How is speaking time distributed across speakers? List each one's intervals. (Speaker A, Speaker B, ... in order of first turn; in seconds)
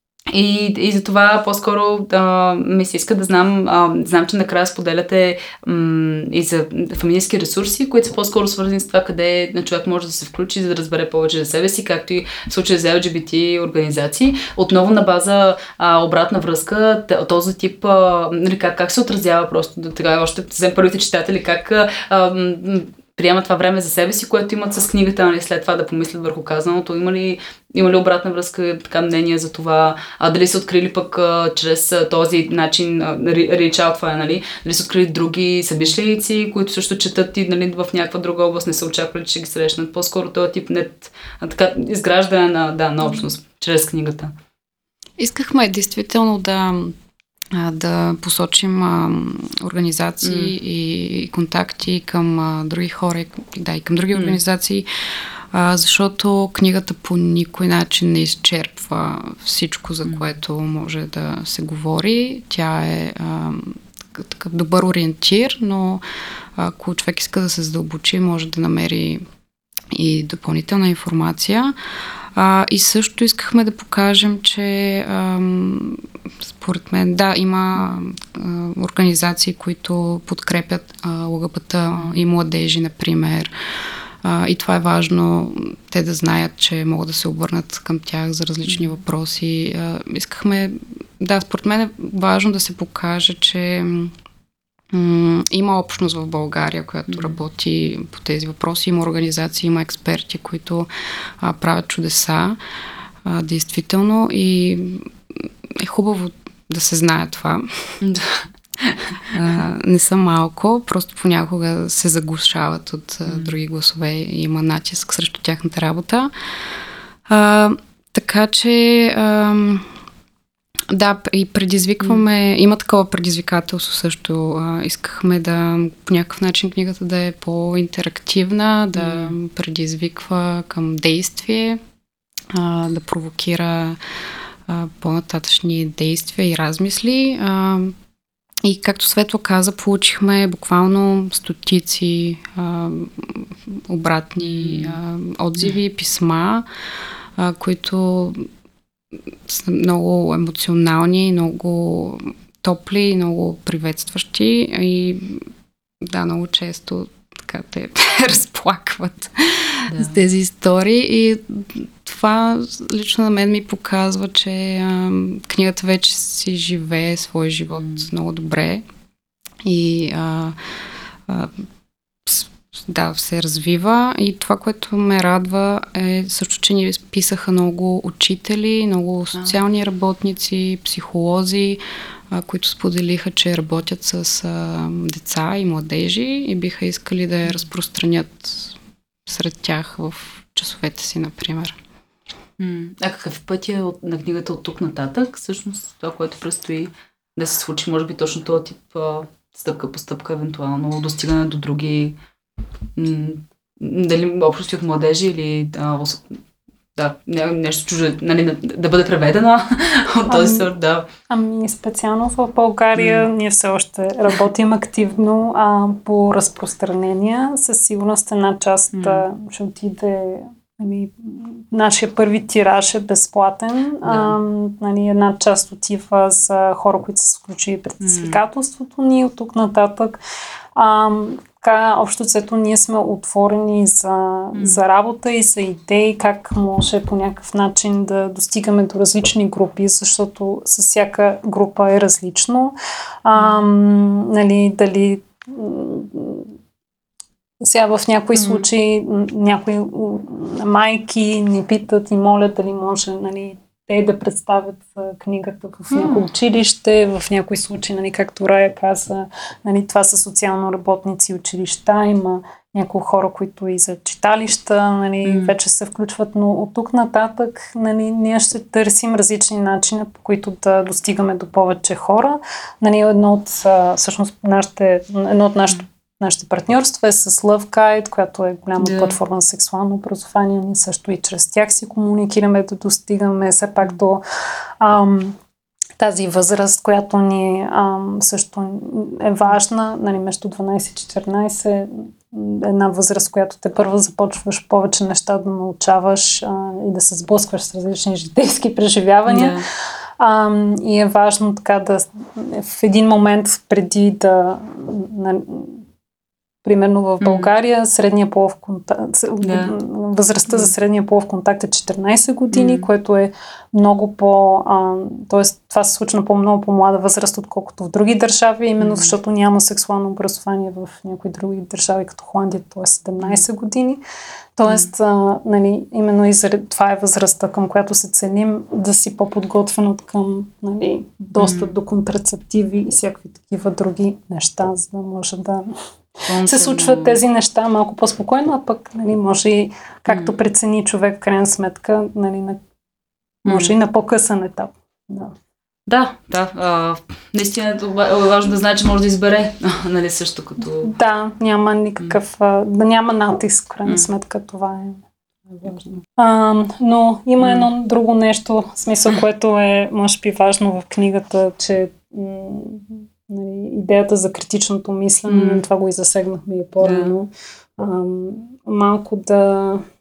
Speaker A: 0.3-44.3, 50.2-50.5, 88.7-89.0, 97.1-97.4, 108.0-109.2, 113.3-113.5, 122.0-122.2, 128.9-129.3, 144.4-145.0, 159.9-160.2, 167.8-168.1, 192.6-202.2, 203.0-206.4, 207.0-211.1, 213.0-213.3, 218.9-219.2, 224.1-224.3, 228.0-228.4, 234.5-234.8, 243.3-243.6, 248.3-248.6, 255.9-256.3, 265.2-265.5, 278.8-279.2, 299.3-299.6, 307.2-307.5, 309.4-309.7, 312.5-312.9, 318.8-319.1, 331.4-331.7, 336.3-337.2, 340.1-340.3, 343.4-343.7, 345.9-350.9, 355.7-356.0, 357.4-357.7, 365.3-365.6, 366.8-367.1
Speaker B: 45.2-47.0, 47.5-54.9, 55.5-66.0, 66.6-69.2, 69.9-71.8, 72.3-83.5, 84.2-94.1, 94.9-100.9, 101.4-102.6, 103.2-107.9, 109.3-116.3, 117.3-119.9, 120.9-131.8, 132.5-134.0, 134.7-138.0, 138.6-146.7, 147.4-148.5, 149.5-155.5, 156.0-168.8, 169.6-170.6, 171.3-171.6, 172.3-191.8
Speaker C: 210.3-210.7, 211.3-230.2, 230.8-246.6, 247.6-284.2, 284.8-285.4, 286.0-299.6, 300.2-305.9, 306.6-324.0, 324.6-335.7, 336.4-342.6, 343.4-345.3, 350.8-369.8